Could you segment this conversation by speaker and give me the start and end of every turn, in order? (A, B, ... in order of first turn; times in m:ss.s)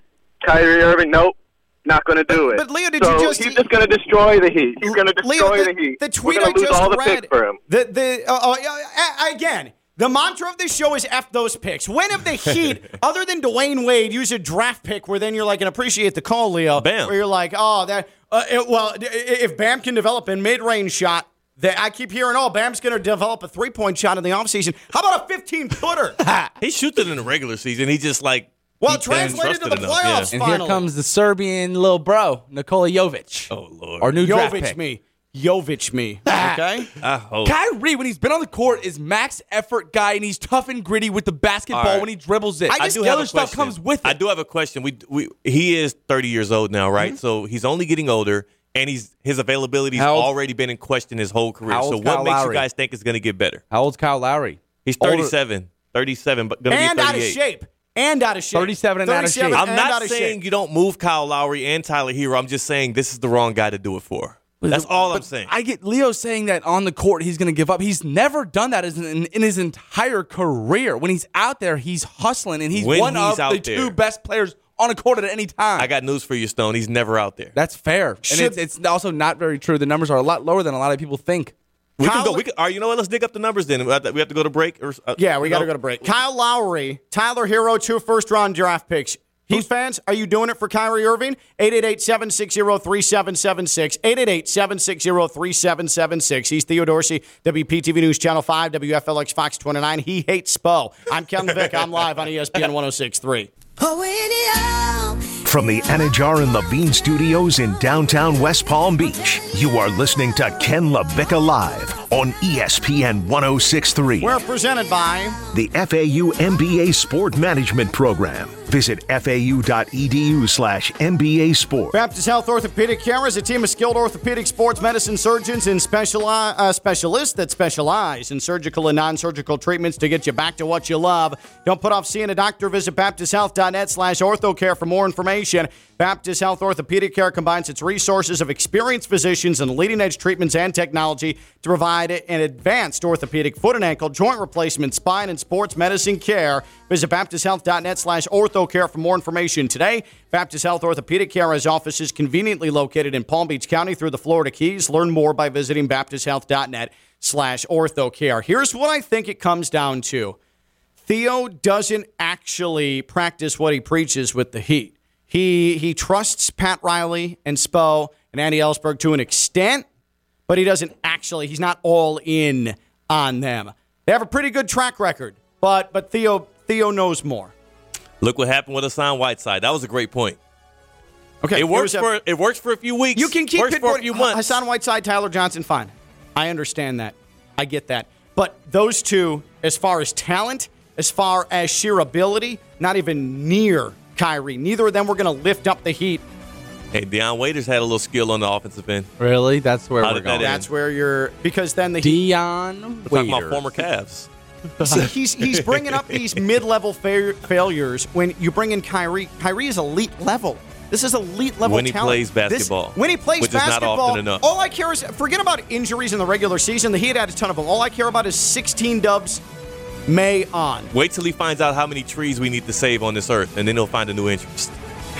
0:00.4-0:07.6 A
0:02.3-0:03.7 B
0:04.8-0:26.2 B
0:16.8-0:17.1 C
0:26.2-0:26.5 D
0:26.6-0:30.3 C
0:28.8-0:30.8 B
0:30.3-0:34.8 D
0:33.5-0:34.1 C
0:34.2-0:36.9 B
0:36.2-0:36.9 D
0:37.0-0:37.5 C
0:37.4-0:44.2 D
0:41.7-0:42.1 C
0:42.7-0:43.2 B
0:42.7-0:53.6 C
0:49.9-0:50.3 D
0:51.7-0:52.6 D
0:53.7-0:55.3 D
0:54.8-0:57.4 C
0:56.7-1:00.4 B
0:58.5-0:59.6 D
0:59.5-1:05.5 C
1:04.6-1:15.9 D
1:12.7-1:13.9 C
1:15.8-1:17.5 C
1:17.5-1:21.5 D
1:18.3-1:18.6 B
1:22.0-1:25.7 C
1:22.0-1:22.4 B
1:25.2-1:43.5 B
1:43.8-1:54.4 E
1:54.2-1:55.4 B
1:55.5-2:02.0 E
2:01.9-2:40.4 B
2:41.0-2:49.8 B
2:50.5-2:57.5 B
2:58.2-3:00.4 C
3:01.4-3:02.1 B
3:01.5-3:04.6 C
3:03.2-3:16.2 B
3:16.9-3:19.1 C
3:19.2-3:20.6 D
3:20.0-3:20.6 C
3:20.4-3:22.2 B
3:22.0-3:23.7 D
3:23.1-3:24.3 C
3:24.8-3:39.4 B
3:24.9-3:26.2 C
3:31.6-3:34.4 C
3:40.1-3:40.9 B
3:40.9-3:44.8 C